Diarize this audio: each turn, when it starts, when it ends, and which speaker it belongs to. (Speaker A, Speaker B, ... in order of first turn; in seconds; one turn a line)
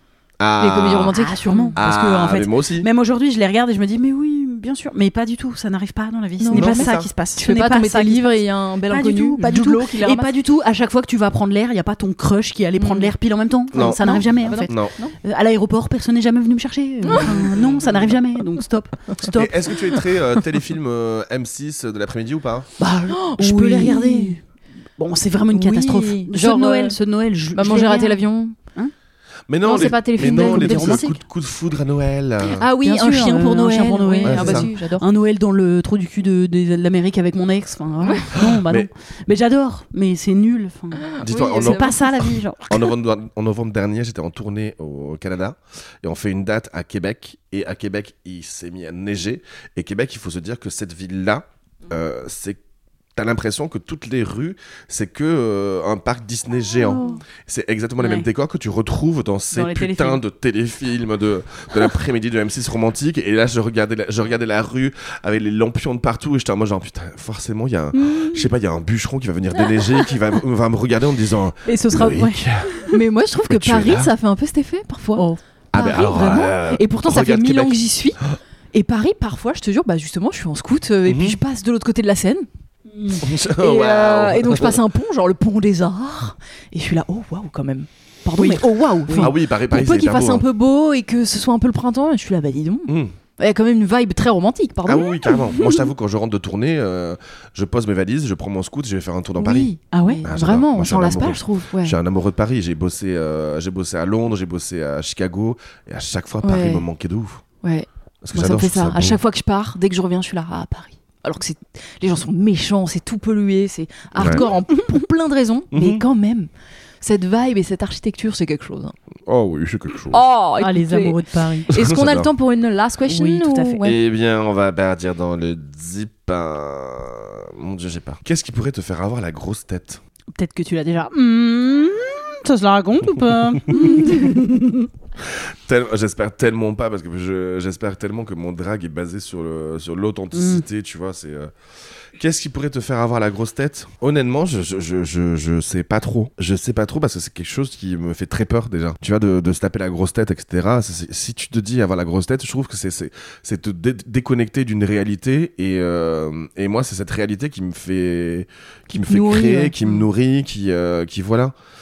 Speaker A: 0.4-1.2
Speaker B: 0.6-1.8
Speaker C: 1.1-19.7
Speaker A: 1.8-2.9
Speaker B: 6.4-10.3
Speaker A: 6.5-7.1
Speaker B: 12.8-13.1
Speaker A: 13.7-14.0
Speaker B: 13.7-15.2
Speaker A: 14.7-14.9
Speaker B: 17.1-17.5
Speaker A: 19.3-22.7
Speaker C: 22.8-24.4
Speaker B: 23.1-24.4
Speaker C: 25.0-28.2
Speaker B: 25.5-27.0
Speaker B: 27.5-28.6
Speaker A: 29.5-32.6
Speaker B: 29.6-31.1
Speaker C: 30.2-31.2
Speaker B: 32.6-35.1
Speaker C: 32.8-42.9
Speaker A: 34.2-34.7
Speaker A: 38.4-38.9
Speaker B: 41.1-42.3
Speaker A: 41.2-41.9
Speaker A: 42.7-52.6
Speaker A: 53.1-72.8
Speaker C: 56.9-57.2
Speaker B: 56.9-57.2
Speaker C: 58.0-58.3
Speaker C: 59.5-60.2
Speaker C: 68.0-68.4
Speaker C: 71.7-73.0
Speaker B: 72.9-78.2
Speaker A: 73.4-74.1
Speaker A: 75.7-78.4
Speaker B: 78.7-82.5
Speaker A: 81.1-81.4
Speaker C: 82.9-83.3
Speaker A: 83.2-84.8
Speaker B: 83.5-95.4
Speaker C: 88.4-89.3
Speaker A: 89.2-90.5
Speaker A: 92.9-93.2
Speaker A: 94.8-99.7
Speaker B: 99.4-102.0
Speaker C: 99.9-100.2
Speaker A: 100.2-107.4
Speaker B: 106.4-106.8
Speaker B: 107.6-116.5
Speaker A: 108.2-109.2
Speaker A: 114.2-114.4
Speaker C: 114.2-114.5
Speaker A: 115.7-116.0
Speaker B: 117.0-119.0
Speaker A: 119.3-120.2
Speaker B: 120.1-124.0
Speaker C: 120.6-121.7
Speaker A: 121.7-122.3
Speaker C: 123.1-123.8
Speaker A: 123.8-130.0
Speaker C: 130.3-134.9
Speaker A: 135.2-141.5
Speaker C: 140.3-140.7
Speaker A: 142.1-161.5
Speaker B: 158.9-160.1